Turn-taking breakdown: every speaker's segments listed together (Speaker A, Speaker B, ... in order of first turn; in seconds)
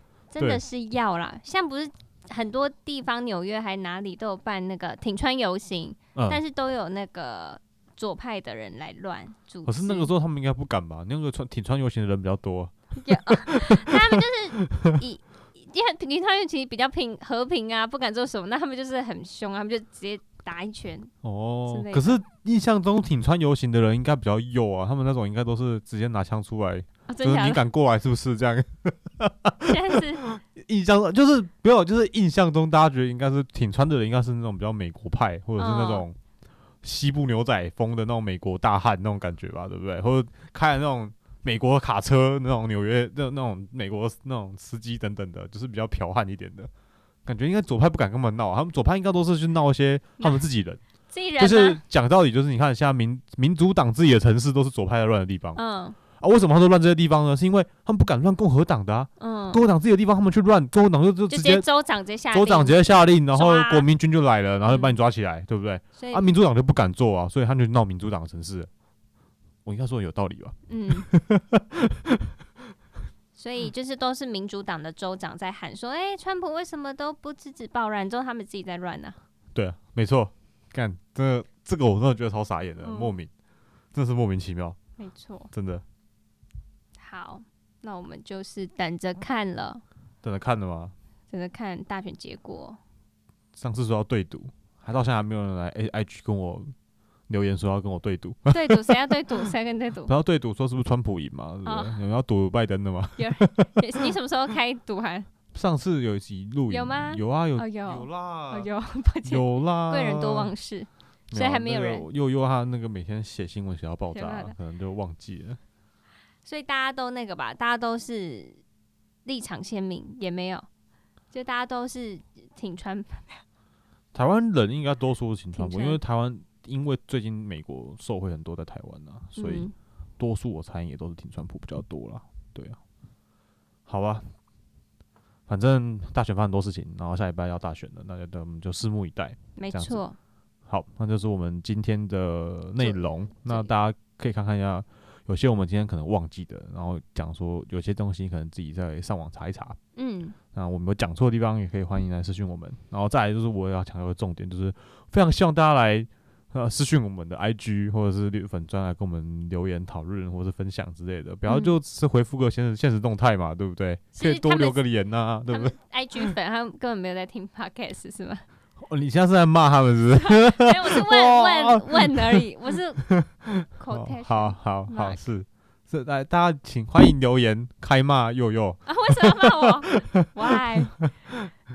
Speaker A: 0.3-10.1, 13.0-21.1, 21.7-22.2, 27.1-27.7, 29.7-30.2, 35.6-36.0, 51.1-51.8, 55.5-56.0, 59.2-59.6, 61.3-63.9, 64.7-65.0, 66.0-66.3, 70.7-71.1, 73.4-79.2, 82.8-83.1, 85.0-85.5, 87.0-89.8, 91.3-92.8, 98.5-100.1, 101.6-102.0, 103.2-105.3, 106.7-112.1, 114.1-114.5, 116.5-118.6, 119.3-120.7, 121.3-123.4, 125.5-126.0, 129.4-129.7, 139.6-140.2, 142.8-143.7, 149.9-150.4, 161.5-161.8, 164.1-164.8, 165.5-168.4, 170.1-173.0, 173.8-175.2, 178.9-180.9
Speaker B: 6.1-6.4, 9.6-15.0, 21.2-36.2, 36.8-46.7, 47.2-50.8, 51.4-55.6, 56.2-61.6, 62.3-68.7, 69.6-72.3, 79.5-83.3, 83.9-84.8, 85.5-85.8, 90.2-90.9, 93.6-96.7, 97.3-99.1, 100.1-104.1, 105.5-108.7, 109.3-110.5, 111.3-115.6, 124.1-129.7, 130.2-132.8, 133.9-134.3, 135.5-140.0, 140.7-149.8, 150.5-166.3, 168.8-172.4, 173.0-181.5